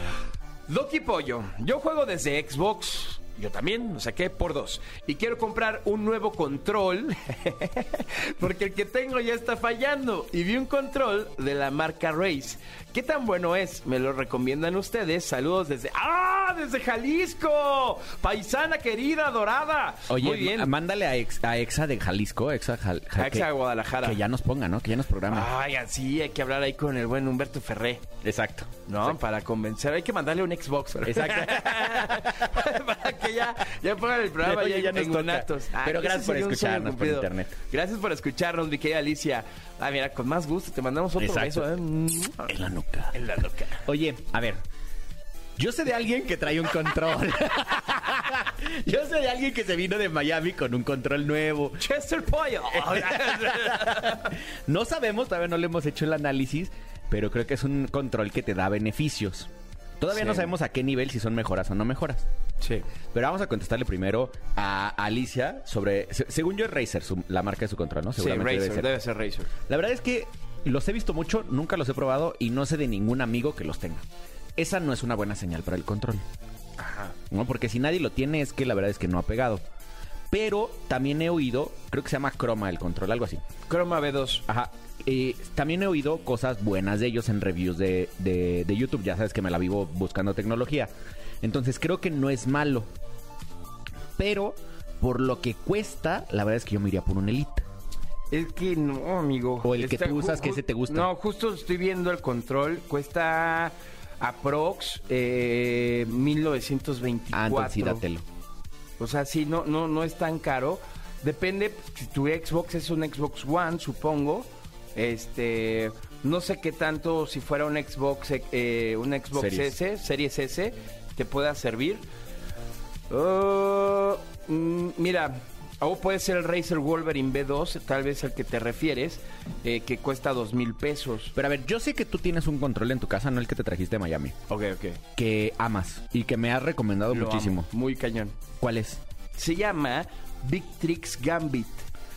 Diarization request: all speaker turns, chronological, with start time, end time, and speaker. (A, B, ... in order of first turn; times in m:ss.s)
0:00.7-0:20.7 A
0:20.1-0:23.5 B
0:23.2-0:24.2 A
0:24.0-0:25.5 B
0:25.3-0:28.0 A
0:28.2-0:29.2 B
0:28.9-0:42.5 A
0:31.0-0:32.5 B
0:34.4-0:37.5 B
0:41.2-0:41.6 B
0:42.4-0:43.2 B
0:43.1-0:43.9 A
0:43.8-0:44.6 B
0:45.6-0:51.9 B
0:51.8-0:54.3 A
0:52.8-1:02.2 B
1:00.1-1:00.5 A
1:03.1-1:08.9 B
1:08.2-1:09.5 A
1:09.7-1:14.0 B
1:14.6-1:16.2 B
1:16.8-1:17.1 A
1:17.3-1:19.6 B
1:20.3-1:23.4 B
1:23.7-1:24.4 A
1:24.5-1:30.9 B
1:31.4-1:32.9 B
1:34.2-1:37.6 B
1:38.3-1:48.0 A
1:39.6-1:41.1 B
1:47.3-1:48.2 B
1:49.0-2:02.0 A
1:59.3-1:59.7 B
2:03.1-2:11.3 A
2:11.3-2:14.3 B
2:14.5-2:15.0 A
2:15.2-2:17.7 B
2:17.1-2:18.4 A
2:18.6-2:19.0 B
2:19.4-2:21.9 A